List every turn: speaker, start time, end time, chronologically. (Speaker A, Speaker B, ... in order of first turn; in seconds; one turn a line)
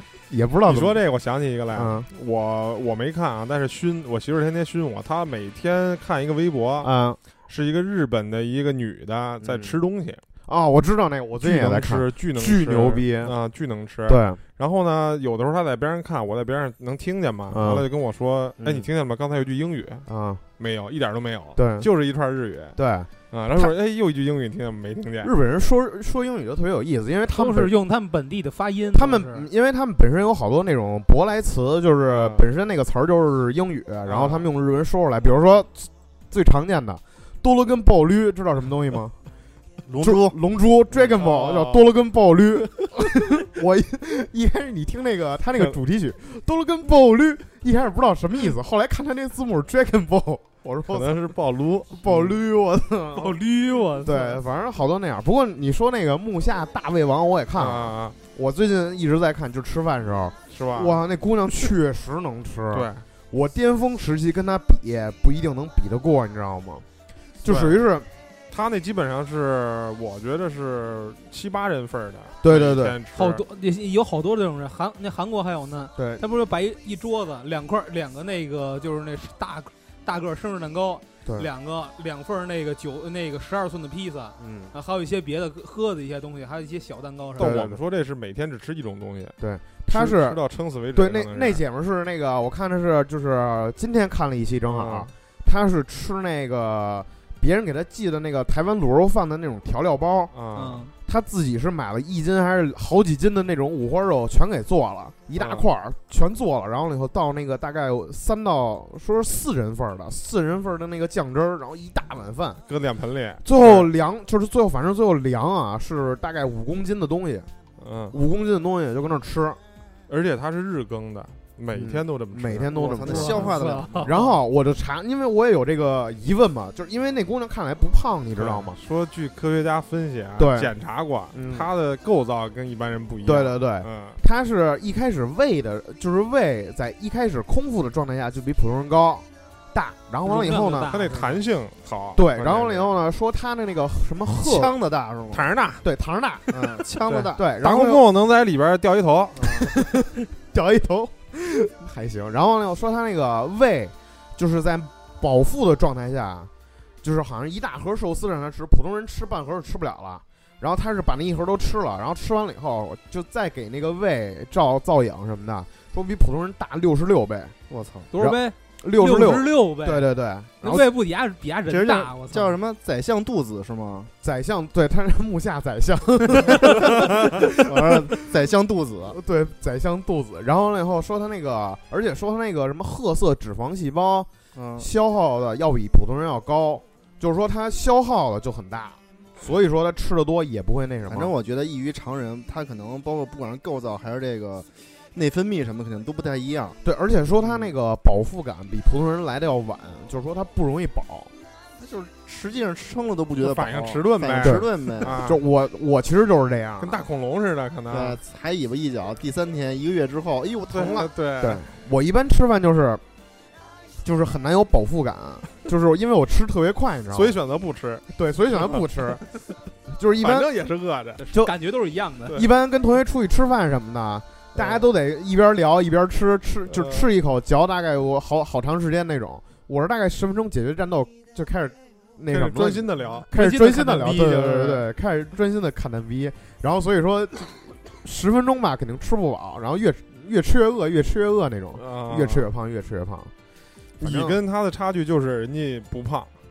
Speaker A: 0.3-1.0
Speaker B: 0.7-6.9
Speaker A: 1.7-2.1
Speaker A: 6.8-7.2
Speaker B: 7.5-10.2
Speaker A: 9.4-9.8
Speaker A: 10.5-13.3
Speaker B: 11.4-20.1
Speaker A: 14.1-14.4
Speaker A: 17.5-17.9
Speaker A: 18.6-18.9
Speaker A: 20.1-20.4
Speaker B: 20.6-22.8
Speaker A: 21.6-21.9
Speaker A: 22.8-23.7
Speaker B: 23.3-25.3
Speaker A: 25.2-27.8
Speaker C: 27.4-29.5
Speaker A: 28.9-39.2
Speaker B: 32.1-32.4
Speaker B: 34.1-34.5
Speaker D: 39.9-40.4
Speaker A: 40.0-51.1
Speaker B: 40.9-41.9
Speaker B: 50.8-52.4
Speaker A: 51.9-53.4
Speaker C: 53.2-54.4
Speaker A: 54.0-66.8
Speaker B: 57.6-58.2
Speaker B: 60.5-61.0
Speaker B: 62.7-63.0
Speaker A: 67.4-68.1
Speaker B: 67.5-67.8
Speaker B: 68.5-73.4
Speaker A: 72.4-73.0
Speaker C: 73.1-87.6
Speaker A: 76.0-76.2
Speaker A: 84.4-84.7
Speaker B: 87.4-91.6
Speaker A: 87.4-87.8
Speaker A: 89.4-90.4
Speaker A: 90.9-100.3
Speaker B: 94.7-95.1
Speaker B: 100.3-100.9
Speaker C: 100.5-100.9
Speaker A: 101.0-112.6
Speaker B: 105.4-105.7
Speaker B: 112.7-113.9
Speaker A: 113.4-117.5
Speaker B: 117.8-118.2
Speaker A: 118.1-119.6
Speaker B: 120.1-123.3
Speaker A: 121.7-128.8
Speaker D: 122.7-124.2
Speaker C: 123.1-124.4
Speaker B: 128.4-134.2
Speaker A: 130.4-130.7
Speaker A: 131.3-131.7
Speaker A: 133.2-141.0
Speaker C: 140.2-141.4
Speaker B: 140.8-142.9
Speaker A: 142.2-144.7
Speaker D: 144.4-145.5
Speaker B: 145.3-145.8
Speaker A: 145.8-146.7
Speaker D: 146.5-147.4
Speaker B: 147.1-149.7
Speaker A: 147.4-148.0
Speaker D: 149.4-149.7
Speaker A: 149.6-156.5
Speaker A: 157.0-167.5
Speaker D: 167.7-168.1
Speaker C: 168.1-170.1
Speaker A: 168.1-170.9
Speaker C: 170.6-172.6
Speaker D: 171.7-174.1
Speaker A: 174.2-177.7
Speaker D: 176.6-176.9
Speaker D: 177.6-179.2
Speaker A: 179.1-191.3
Speaker D: 184.6-184.9
Speaker D: 191.1-196.8
Speaker A: 196.8-201.3
Speaker B: 197.4-197.7
Speaker D: 201.8-205.2
Speaker B: 203.4-205.4
Speaker A: 204.4-207.1
Speaker B: 206.8-208.2
Speaker D: 207.9-211.1
Speaker B: 210.7-211.7
Speaker A: 211.4-213.0
Speaker A: 214.0-217.4
Speaker B: 217.1-218.1
Speaker A: 218.1-219.2
Speaker A: 219.9-220.5
Speaker B: 220.2-221.2
Speaker C: 221.2-222.4
Speaker A: 222.3-243.3
Speaker B: 224.6-224.9
Speaker B: 226.7-227.1
Speaker B: 232.3-233.3
Speaker C: 233.3-234.3
Speaker B: 234.0-234.8
Speaker B: 241.8-242.5
Speaker A: 244.0-244.4
Speaker B: 244.0-246.3